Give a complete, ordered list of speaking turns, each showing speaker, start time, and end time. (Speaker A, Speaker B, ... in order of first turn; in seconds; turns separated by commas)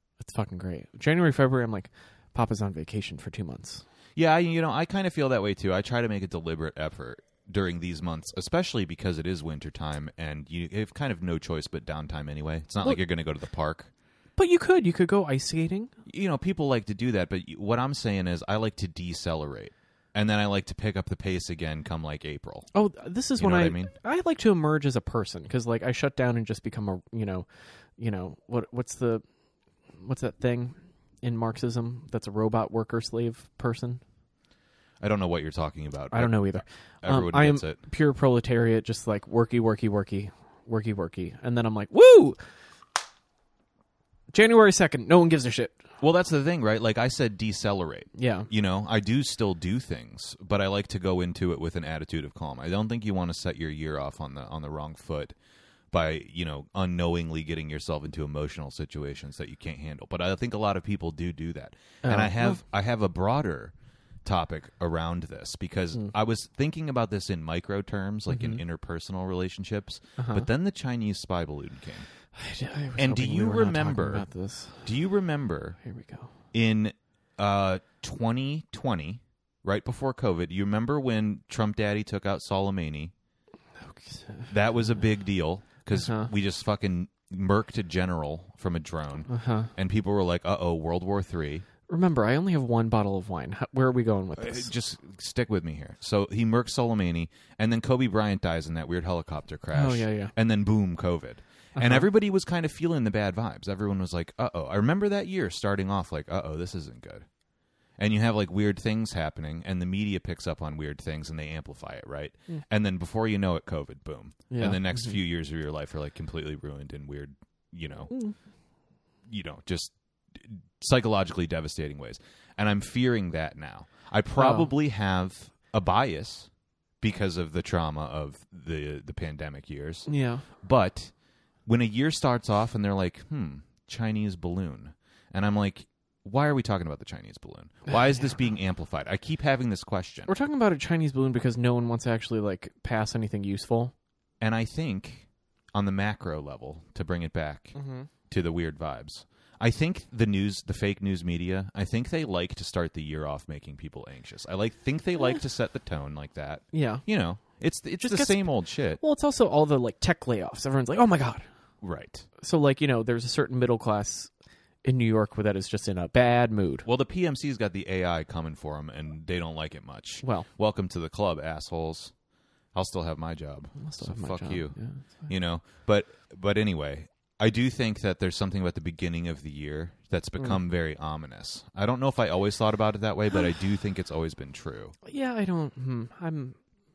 Speaker A: 0.2-3.9, Speaker B: 4.2-13.9, Speaker A: 14.4-15.9, Speaker B: 16.1-22.7, Speaker A: 22.7-29.2, Speaker B: 23.4-23.9, Speaker A: 30.0-34.0, Speaker B: 35.0-37.8, Speaker A: 36.1-42.4, Speaker A: 44.3-45.9, Speaker B: 46.0-55.4, Speaker A: 48.1-48.5, Speaker B: 55.9-63.7, Speaker A: 62.0-62.6, Speaker B: 64.2-72.1, Speaker A: 68.3-68.6, Speaker A: 70.2-70.5, Speaker A: 72.3-74.9, Speaker B: 73.0-74.3, Speaker B: 74.8-75.8, Speaker A: 75.8-76.3, Speaker B: 76.5-83.1, Speaker A: 83.9-84.5, Speaker B: 84.5-91.6, Speaker A: 85.9-86.3, Speaker A: 89.3-89.7, Speaker A: 91.9-94.7, Speaker B: 94.4-107.3, Speaker A: 99.7-100.3, Speaker A: 101.8-102.1, Speaker B: 108.0-118.1, Speaker A: 114.5-115.2, Speaker A: 118.1-118.4, Speaker B: 119.3-126.5, Speaker A: 124.4-124.7, Speaker B: 127.0-131.1, Speaker A: 130.1-130.5, Speaker B: 131.7-140.3, Speaker A: 140.3-143.9, Speaker B: 144.4-159.0, Speaker A: 147.8-148.1, Speaker A: 156.7-157.1, Speaker A: 158.0-161.5, Speaker B: 161.8-162.3, Speaker A: 162.4-164.3, Speaker A: 164.8-166.9, Speaker B: 166.8-172.2, Speaker A: 170.2-170.5, Speaker B: 172.7-184.9, Speaker A: 173.8-175.3, Speaker A: 185.1-186.6